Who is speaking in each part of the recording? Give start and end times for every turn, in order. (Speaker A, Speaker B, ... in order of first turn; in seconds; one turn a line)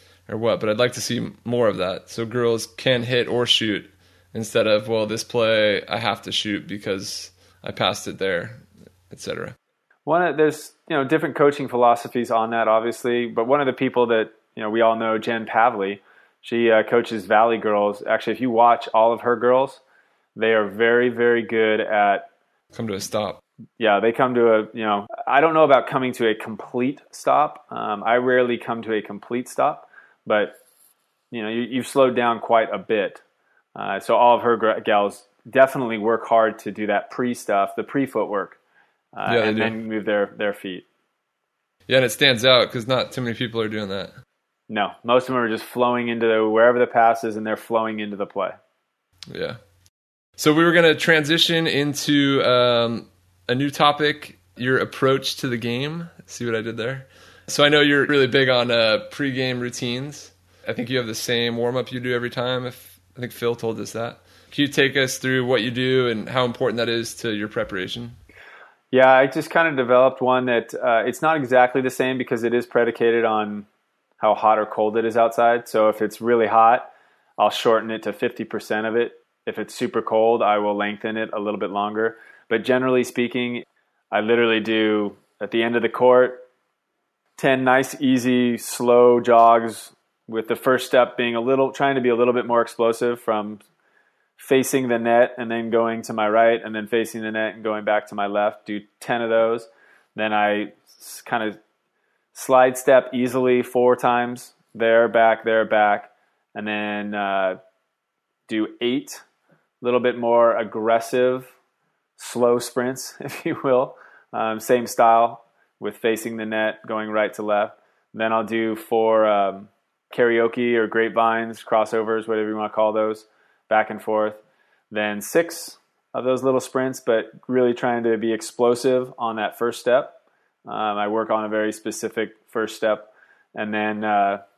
Speaker A: 0.3-9.6
Speaker B: 10.1-19.8
Speaker B: 20.4-22.3
Speaker A: 22.7-23.4
Speaker B: 23.8-30.6
Speaker B: 31.3-33.2
Speaker B: 33.8-38.6
Speaker B: 39.1-40.9
Speaker A: 39.3-39.8
Speaker A: 41.9-44.1
Speaker B: 44.7-48.5
Speaker A: 49.3-49.6
Speaker A: 50.4-68.2
Speaker B: 68.9-73.7
Speaker B: 74.2-86.5
Speaker B: 87.4-93.6
Speaker B: 94.4-101.6
Speaker B: 102.3-107.6
Speaker B: 108.5-109.2
Speaker B: 109.8-111.5
Speaker B: 112.2-130.2
Speaker B: 130.7-134.4